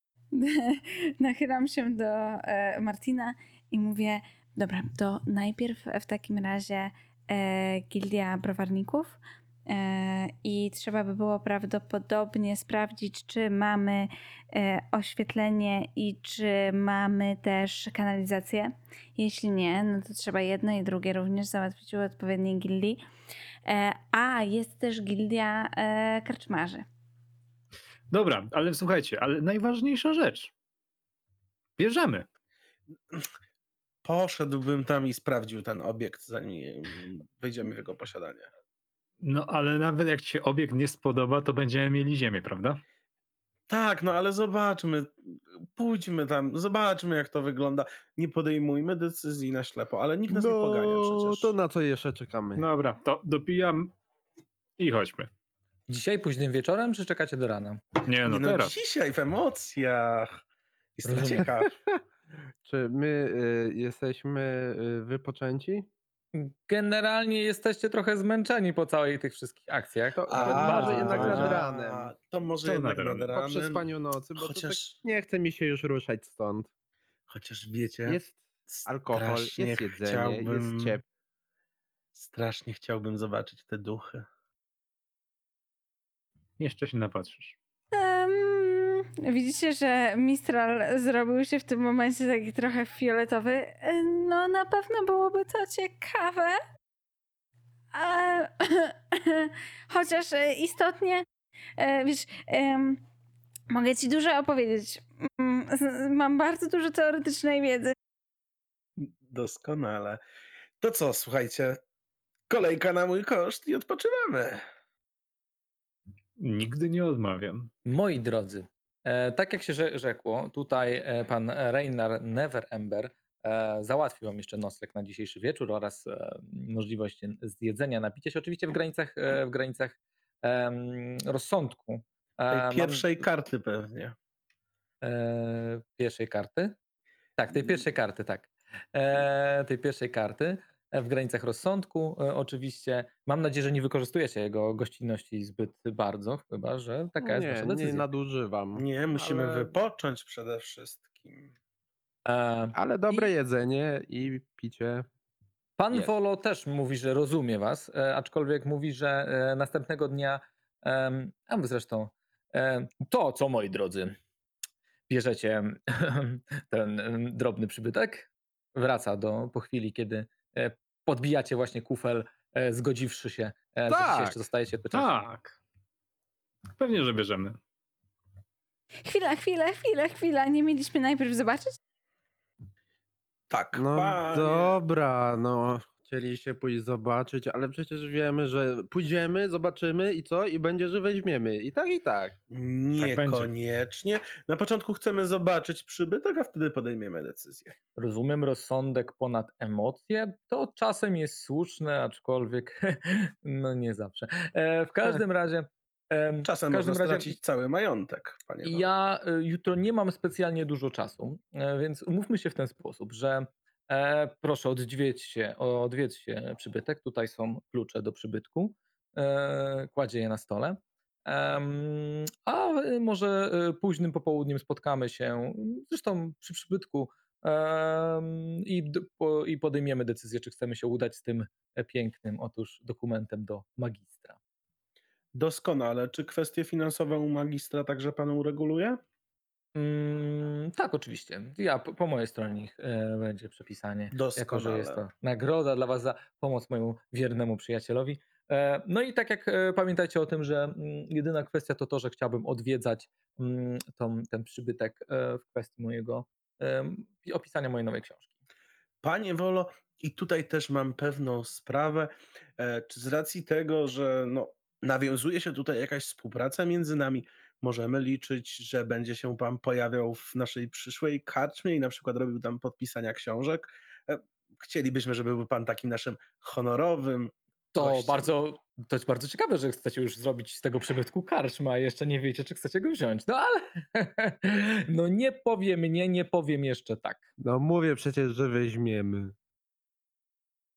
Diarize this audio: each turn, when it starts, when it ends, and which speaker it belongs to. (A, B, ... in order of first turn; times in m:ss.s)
0:00.3-0:23.0 A
0:23.6-0:26.8 A
0:28.1-0:30.5 B
0:31.8-0:32.2 B
0:34.0-0:38.5 C
0:39.2-0:42.8 B
0:43.7-0:51.5 C
0:50.3-0:52.6 D
0:52.6-0:53.9 B
0:54.8-0:55.3 B
0:55.9-0:57.8 E
0:58.0-0:58.8 B
0:58.2-1:00.3 C
1:01.0-1:01.8 C
1:01.0-1:01.5 E
1:02.6-1:05.9 D
1:06.3-1:11.6 E
1:10.2-1:12.1 D
1:10.3-1:13.9 C
1:12.6-1:13.3 B
1:13.3-1:16.7 D
1:14.4-1:14.9 C
1:17.3-1:21.0 C
1:18.0-1:21.0 D
1:22.2-1:24.3 C
1:26.6-1:27.6 B
1:27.9-1:36.6 A
1:37.9-1:41.2 A
1:41.8-1:43.0 A
1:43.7-1:47.9 A
1:49.0-1:50.2 C
1:50.8-1:51.8 C
1:52.5-1:54.6 C
1:56.4-1:57.7 B
1:57.9-2:13.2 E
2:12.5-2:14.1 C
2:15.0-2:16.8 E
2:17.4-2:28.1 E
2:27.2-2:29.8 D
2:28.8-2:31.5 C
2:32.2-2:33.3 E
2:32.8-2:35.1 D
2:35.8-2:44.2 E
2:45.1-2:55.1 E
2:53.9-2:54.4 D
2:54.9-2:55.6 B
2:56.8-2:57.6 B
2:59.0-3:01.8 A
3:03.5-3:04.8 C
3:03.7-3:12.4 D
3:12.5-3:17.8 C
3:13.0-3:13.5 B
3:18.0-3:27.4 E
3:26.4-3:28.9 C
3:28.6-3:54.4 E
3:55.3-3:59.0 C
3:59.8-4:18.3 E
4:04.1-4:05.0 C
4:19.0-4:38.3 C
4:37.7-4:47.2 E
4:47.4-4:49.4 D